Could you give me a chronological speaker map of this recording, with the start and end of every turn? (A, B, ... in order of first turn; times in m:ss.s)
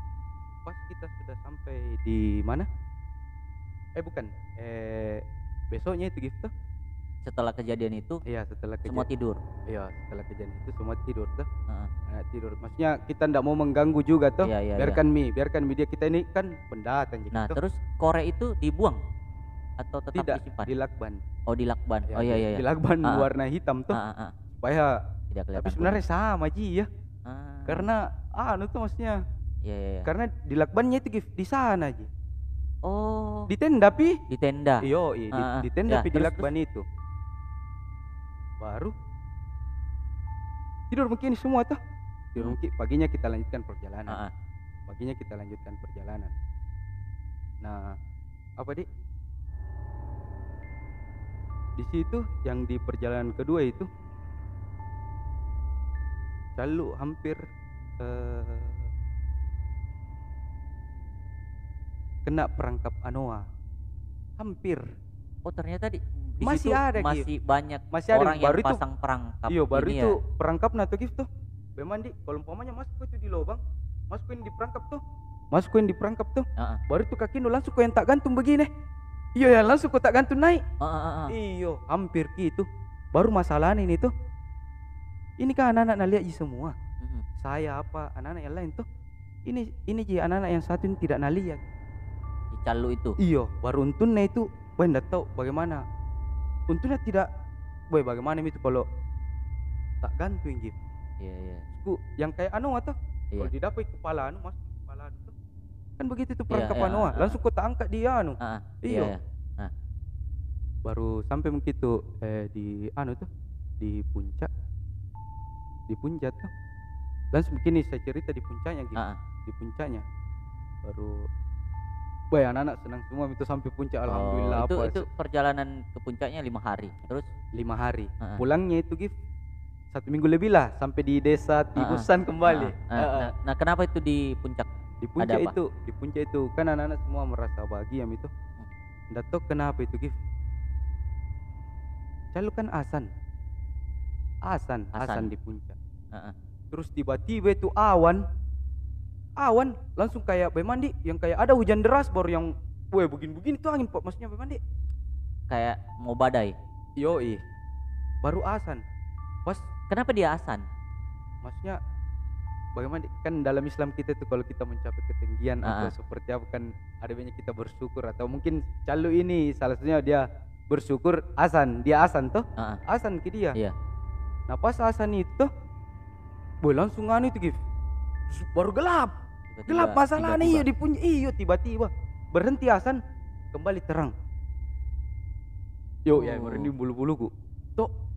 0:00.7-0:02.7 A
0:04.0-0:06.5 A
0:07.2-0:08.2 B
0:08.3-0:09.1 A
0:08.8-0:09.4 B
0:09.7-0:11.5 A
0:12.1-0:17.6 A
0:14.4-0:15.0 B
0:17.3-0:19.0 B
0:19.8-0:20.7 B
0:20.2-0:21.2 A
0:21.5-0:23.3 B
0:22.1-0:24.0 A
0:23.9-0:24.4 B
0:24.6-0:25.0 A
0:25.3-0:26.0 B
0:25.6-0:26.9 A
0:27.3-0:27.9 B
0:27.7-0:29.2 A
0:29.6-0:30.1 B
0:30.0-0:32.1 A
0:32.8-0:33.5 B
0:33.5-0:34.2 A
0:34.3-0:36.5 B
0:34.8-0:36.8 A
0:38.6-0:38.9 A
0:40.9-0:41.8 A
0:42.3-0:44.2 A
0:44.9-0:46.3 A
0:47.6-0:48.0 A
0:48.6-0:48.8 A
0:51.8-0:53.9 A
0:56.6-0:57.4 A
0:58.0-0:58.9 A
1:02.3-1:03.4 A
1:04.4-1:04.8 A
1:05.4-1:10.2 B
1:06.4-1:07.3 A
1:07.9-1:08.8 A
1:09.5-1:13.6 A
1:14.1-1:18.7 A
1:19.4-1:20.6 A
1:20.8-1:21.3 B
1:21.3-1:24.1 A
1:25.4-1:26.8 A
1:27.4-1:28.8 A
1:29.5-1:31.6 A
1:32.5-1:33.2 B
1:33.2-1:35.8 A
1:36.7-1:37.3 A
1:37.9-1:38.8 A
1:40.0-1:40.8 A
1:41.2-1:41.6 B
1:41.7-1:45.3 A
1:46.0-1:49.1 A
1:46.5-1:47.4 B
1:48.4-1:49.7 B
1:50.9-1:53.3 A
1:53.8-1:54.5 A
1:55.9-1:56.5 A
1:57.3-2:00.0 A
2:00.8-2:01.3 A
2:02.3-2:05.1 A
2:04.1-2:07.3 B
2:07.6-2:09.1 A
2:09.9-2:13.3 A
2:11.8-2:14.7 B
2:15.0-2:18.3 A
2:15.2-2:15.6 B
2:19.1-2:20.1 A
2:22.3-2:23.1 A
2:24.5-2:25.8 A
2:25.0-2:25.3 B
2:26.7-2:28.2 A
2:29.4-2:34.6 A
2:35.5-2:36.6 B
2:37.0-2:37.4 A
2:38.2-2:38.8 A
2:39.9-2:40.6 B
2:41.4-2:41.8 A
2:42.8-2:53.6 A
2:45.6-2:45.9 B
2:54.5-2:55.5 A
2:56.6-2:57.6 A
2:58.3-2:59.1 A
2:59.5-3:00.7 B
2:59.7-3:03.0 A
3:03.5-3:04.1 A
3:06.1-3:07.9 A
3:06.1-3:06.7 B